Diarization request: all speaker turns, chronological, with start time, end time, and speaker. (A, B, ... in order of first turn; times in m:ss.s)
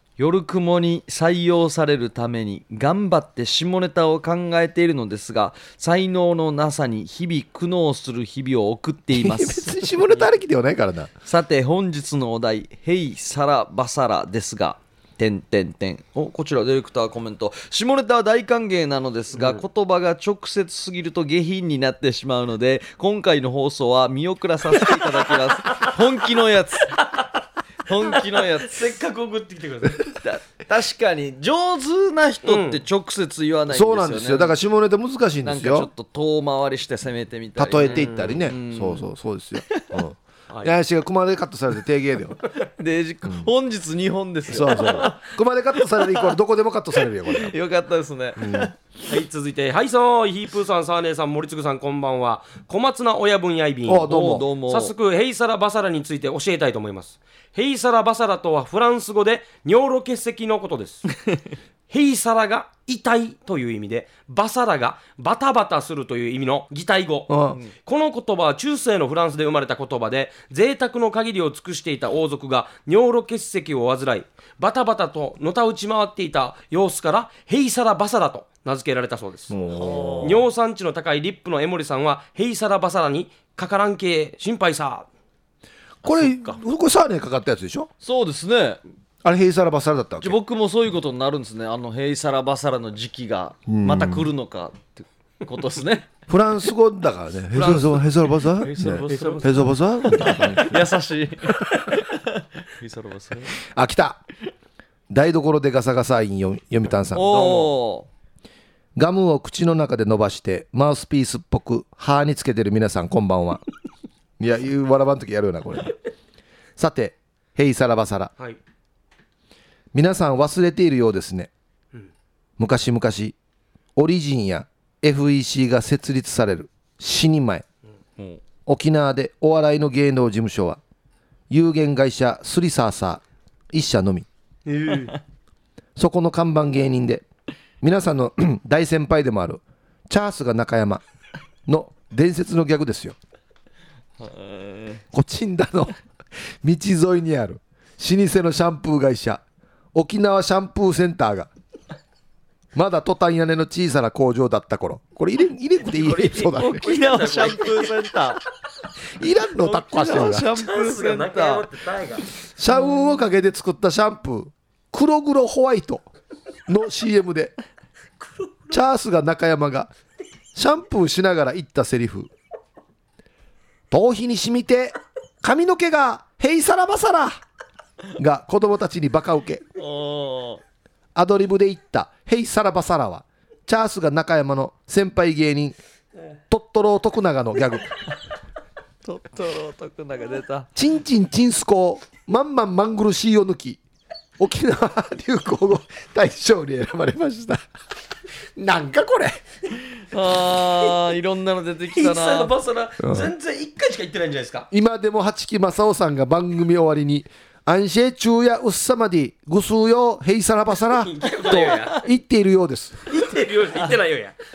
0:00.2-0:10.3 A
0:09.1-0:11.1 B
0:11.2-0:27.0 A
0:19.4-0:19.6 C
0:27.0-0:27.3 C
0:27.9-0:28.9 A
0:28.0-0:30.2 C
0:30.1-0:34.5 A
0:32.4-0:32.8 C
0:33.7-0:35.9 B
0:35.4-0:39.1 A
0:37.6-0:42.4 B
0:37.8-0:38.4 C
0:39.7-0:40.0 A
0:42.8-0:45.2 A
0:44.5-0:47.5 B
0:46.0-0:46.2 A
0:47.3-0:48.7 A
0:48.4-0:48.7 B
0:49.1-1:01.1 C
0:53.9-0:54.5 B
0:54.0-0:54.9 A
1:01.9-1:19.5 C
1:07.3-1:07.6 B
1:19.5-1:20.4 B
1:19.7-1:20.4 A
1:20.2-1:25.1 C
1:26.0-1:27.9 B
1:26.1-1:26.6 A
1:28.0-1:28.8 A
1:29.2-1:30.4 B
1:30.2-1:36.1 A
1:33.7-1:34.3 B
1:36.3-1:40.8 B
1:38.6-1:43.6 A
1:38.9-1:39.7 C
1:43.7-1:44.2 B
1:45.1-1:47.7 B
1:47.1-1:48.1 A
1:49.0-1:53.6 B
1:54.4-1:55.9 B
1:56.8-1:58.3 B
1:59.9-2:01.5 B
2:02.6-2:03.4 B
2:04.0-2:07.6 B
2:08.2-2:08.4 A
2:08.6-2:10.8 B
2:11.5-2:14.3 B
2:14.6-2:15.2 C
2:16.0-2:17.2 B
2:17.8-2:21.0 B
2:21.7-2:23.2 B
2:24.2-2:25.0 A
2:25.1-2:25.9 B
2:26.6-2:29.4 B
2:29.9-2:31.5 B
2:32.7-2:36.8 B
2:35.8-2:38.0 C
2:36.6-2:38.4 A
2:39.2-2:40.5 B
2:39.6-2:41.7 A
2:40.3-2:42.2 C
2:42.6-2:46.0 B
2:46.7-2:47.5 B
2:48.7-2:49.9 B
2:50.5-2:52.3 B
2:53.9-2:57.4 B
2:58.2-2:59.6 B
2:59.8-3:00.6 A
3:01.1-3:05.8 B
3:06.5-3:07.9 B
3:09.0-3:10.7 A
3:10.7-3:13.8 B
3:14.4-3:17.6 B
3:18.6-3:19.4 B
3:20.1-3:22.5 A
3:22.0-3:24.7 C
3:23.0-3:23.3 B
3:24.7-3:33.0 B
3:31.0-3:32.0 C
3:33.1-3:34.3 C